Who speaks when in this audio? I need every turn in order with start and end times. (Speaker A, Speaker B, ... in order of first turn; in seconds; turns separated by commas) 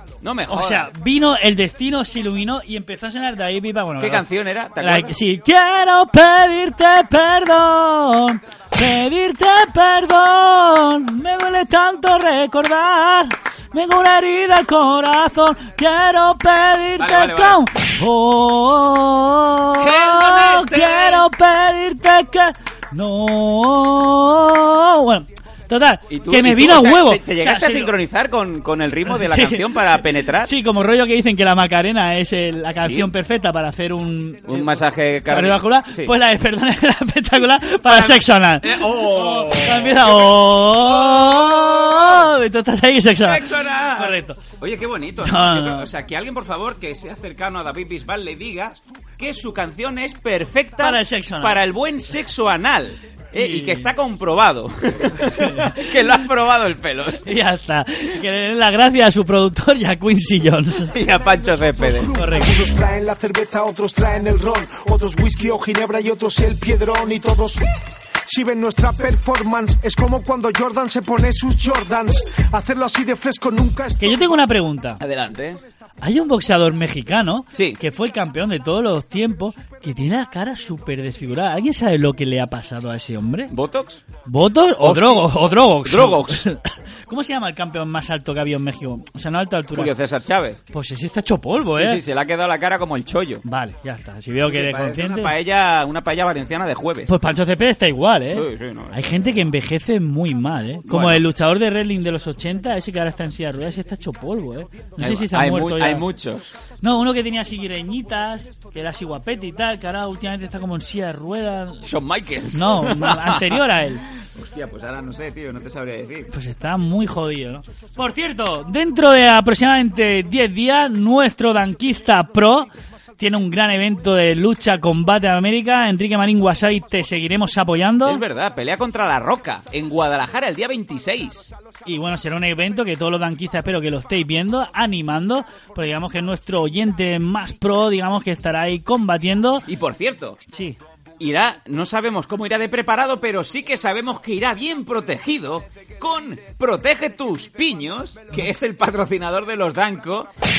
Speaker A: 0.2-0.9, Speaker B: 0.5-4.3, Speaker A: 4.0-5.1, Speaker B: 4.8-27.9, Speaker A: 17.0-17.6, Speaker A: 19.8-21.3, Speaker A: 26.1-30.5, Speaker B: 29.1-44.4, Speaker A: 32.8-33.1, Speaker A: 34.5-36.1, Speaker A: 37.9-42.3, Speaker A: 43.1-57.3, Speaker B: 45.2-45.9, Speaker B: 50.8-51.6, Speaker B: 53.4-53.9, Speaker B: 55.2-56.2, Speaker B: 57.2-61.0, Speaker A: 60.9-62.1, Speaker C: 61.8-67.7, Speaker B: 62.1-62.7, Speaker C: 68.3-74.2, Speaker B: 74.0-75.0, Speaker A: 75.0-75.6, Speaker B: 76.0-83.5, Speaker A: 77.5-77.8, Speaker A: 83.5-84.0, Speaker B: 84.2-89.9, Speaker A: 84.8-86.5, Speaker A: 89.7-90.6, Speaker B: 90.7-92.0, Speaker A: 91.7-93.4, Speaker B: 93.4-95.3, Speaker A: 94.4-97.1, Speaker B: 97.1-106.1, Speaker A: 98.3-99.6, Speaker A: 100.9-101.3, Speaker A: 105.0-106.5, Speaker B: 106.8-111.8, Speaker A: 111.8-116.3, Speaker B: 112.5-114.0, Speaker B: 116.3-122.7, Speaker B: 123.2-128.2, Speaker A: 128.0-131.5, Speaker B: 131.8-139.7, Speaker A: 139.7-140.4, Speaker B: 140.5-140.8, Speaker A: 141.2-150.3